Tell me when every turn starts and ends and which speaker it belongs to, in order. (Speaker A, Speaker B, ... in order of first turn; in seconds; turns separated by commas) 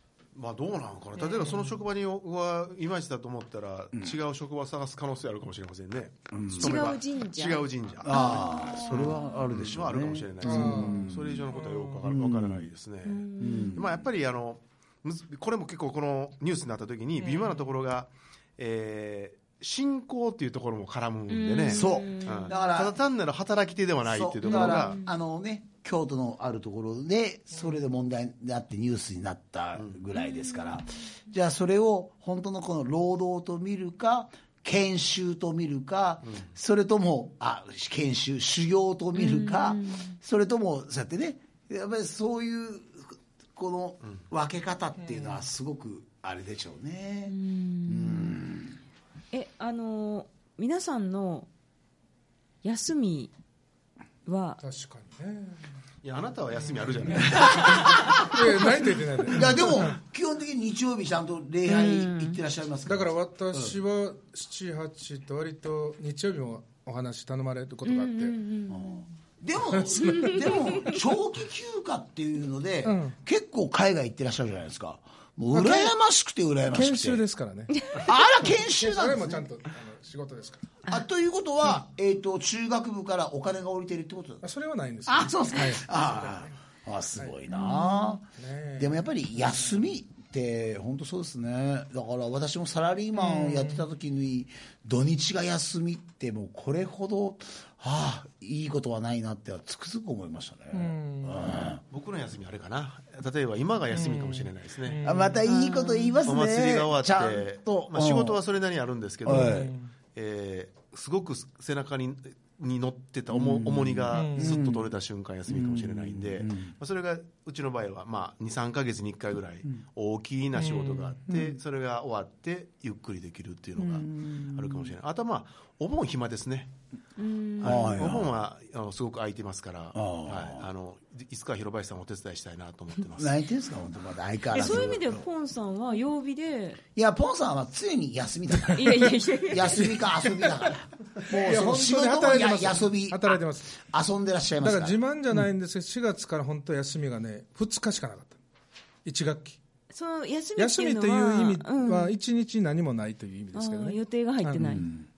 Speaker A: 0.3-25.0, Speaker B: 1.2-1.7, Speaker C: 6.3-6.9, Speaker D: 6.5-8.9, Speaker C: 8.0-11.5, Speaker B: 10.4-12.1, Speaker C: 12.0-12.7, Speaker D: 13.1-13.8, Speaker C: 13.4-14.0, Speaker D: 17.2-17.5, Speaker D: 21.3-22.6, Speaker C: 21.7-23.0, Speaker C: 24.1-47.4, Speaker D: 24.5-25.1, Speaker D: 30.2-30.7, Speaker D: 39.2-40.2, Speaker B: 45.0-45.4, Speaker D: 47.3-48.4, Speaker C: 47.9-48.8, Speaker D: 49.3-51.5, Speaker D: 52.6-53.3, Speaker D: 54.3-54.6, Speaker B: 54.6-55.6, Speaker A: 56.0-58.1, Speaker B: 56.7-60.0, Speaker C: 57.3-58.1, Speaker D: 57.4-57.8, Speaker C: 59.2-63.8, Speaker D: 61.7-62.4, Speaker B: 62.9-68.3, Speaker D: 67.8-69.1, Speaker C: 68.7-77.2, Speaker B: 69.8-70.3, Speaker D: 70.0-71.0, Speaker B: 72.8-73.2, Speaker B: 75.5-75.9, Speaker B: 76.7-78.0, Speaker C: 77.9-79.5, Speaker B: 78.5-80.7, Speaker C: 80.9-84.5, Speaker B: 84.4-86.3, Speaker C: 85.1-101.8, Speaker D: 87.5-88.2, Speaker B: 88.4-89.0, Speaker B: 93.2-93.8, Speaker B: 100.7-101.6, Speaker A: 101.9-105.1, Speaker B: 103.9-105.4, Speaker C: 105.0-108.4, Speaker D: 105.5-106.3, Speaker A: 106.2-126.7, Speaker C: 109.2-109.7, Speaker B: 109.3-109.9, Speaker C: 113.3-114.9, Speaker B: 114.1-114.6, Speaker C: 115.5-116.7, Speaker B: 120.6-121.1, Speaker C: 121.3-121.6, Speaker C: 123.8-125.0, Speaker D: 127.2-128.0, Speaker C: 127.6-128.3, Speaker A: 127.6-133.4, Speaker C: 129.9-130.7, Speaker C: 133.2-135.2, Speaker D: 134.5-136.8, Speaker C: 136.9-145.4, Speaker D: 138.7-140.0, Speaker B: 141.3-143.7, Speaker B: 144.6-148.4, Speaker B: 149.1-149.6, Speaker D: 149.9-152.2, Speaker B: 150.6-154.8, Speaker D: 153.5-154.9, Speaker C: 154.6-155.1